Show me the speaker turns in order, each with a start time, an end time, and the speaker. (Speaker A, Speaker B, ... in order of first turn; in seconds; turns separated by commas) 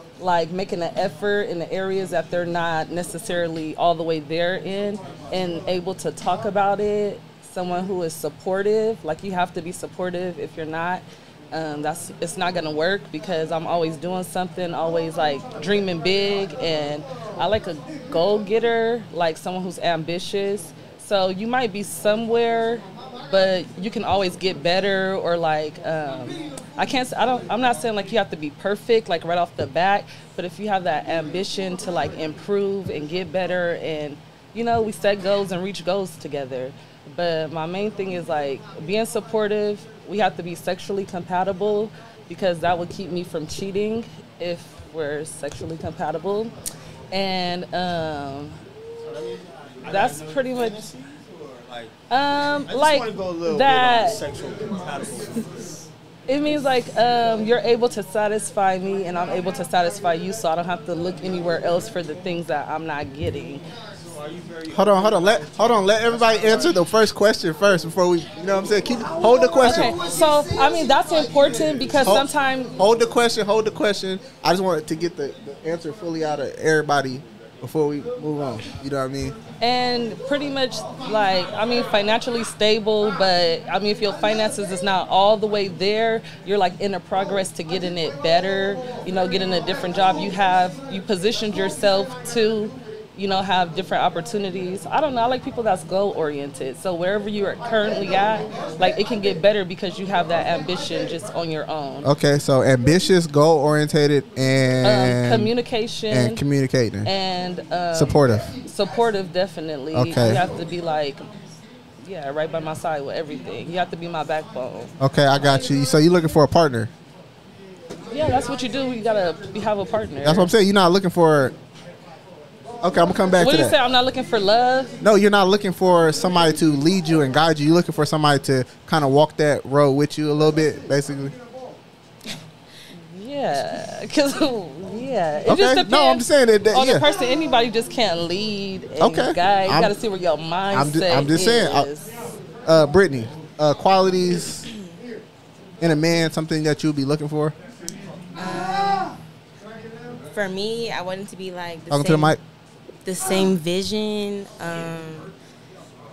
Speaker A: 0.2-46.5, Speaker A: 47.1-48.6, Speaker B: 49.8-51.9, Speaker A: 49.9-50.9, Speaker A: 52.1-54.2, Speaker B: 52.7-55.6, Speaker A: 56.3-63.6, Speaker B: 64.2-64.9, Speaker C: 64.7-70.0, Speaker A: 69.6-72.8, Speaker C: 72.0-79.4, Speaker A: 79.6-102.1, Speaker C: 102.0-105.5, Speaker A: 104.8-106.4, Speaker C: 106.1-107.1, Speaker A: 107.0-111.3, Speaker C: 107.9-108.5, Speaker C: 109.9-110.4, Speaker A: 112.0-114.9, Speaker C: 115.0-116.9, Speaker A: 118.1-120.5, Speaker C: 120.2-121.5, Speaker C: 122.8-123.8, Speaker A: 123.4-125.0, Speaker C: 125.0-131.3, Speaker A: 132.9-142.1, Speaker C: 135.5-137.1, Speaker C: 139.0-139.9, Speaker C: 140.7-141.9, Speaker C: 142.7-144.7, Speaker C: 145.8-147.6, Speaker D: 148.3-149.2, Speaker D: 150.3-152.3, Speaker C: 151.9-152.4, Speaker D: 153.1-155.3